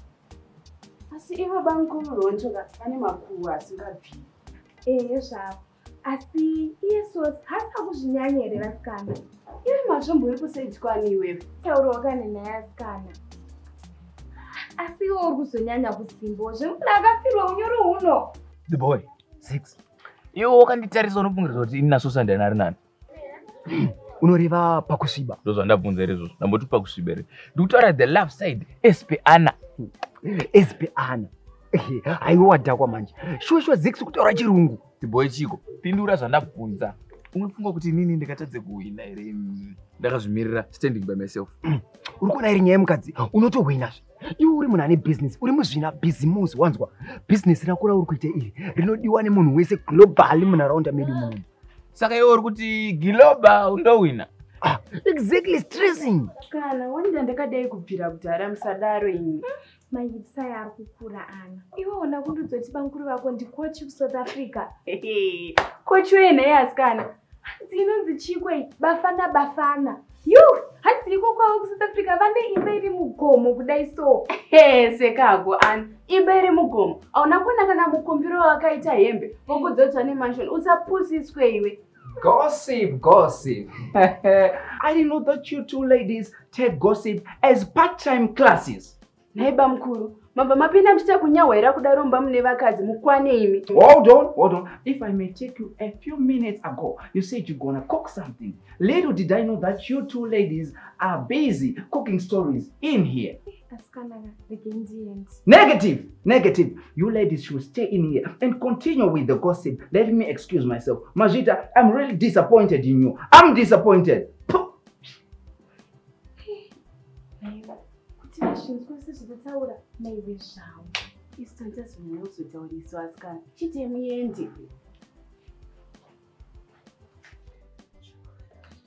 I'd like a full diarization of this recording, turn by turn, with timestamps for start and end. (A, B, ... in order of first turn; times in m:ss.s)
0:01.1-0:04.3 A
0:04.9-0:09.2 B
0:09.6-0:11.5 A
0:11.6-0:13.2 B
0:14.8-0:18.3 B
0:18.7-0:19.0 C
0:19.4-0:19.8 D
0:20.3-0:22.8 C
0:23.7-0:25.4 D
0:25.4-0:29.6 C
0:30.2-0:34.8 D
0:35.0-0:41.5 C
0:41.6-0:51.4 D
0:52.0-0:54.3 C
0:54.6-0:56.3 D
0:56.4-0:59.4 A
0:59.5-1:04.7 B
1:04.9-1:07.1 A
1:07.5-1:14.3 B
1:14.4-1:21.8 A
1:22.2-1:29.0 E
1:29.4-1:33.7 A
1:33.7-1:43.4 E
1:43.5-1:45.4 B
1:45.5-1:54.7 E
1:57.4-2:00.9 B
2:01.4-2:04.7 A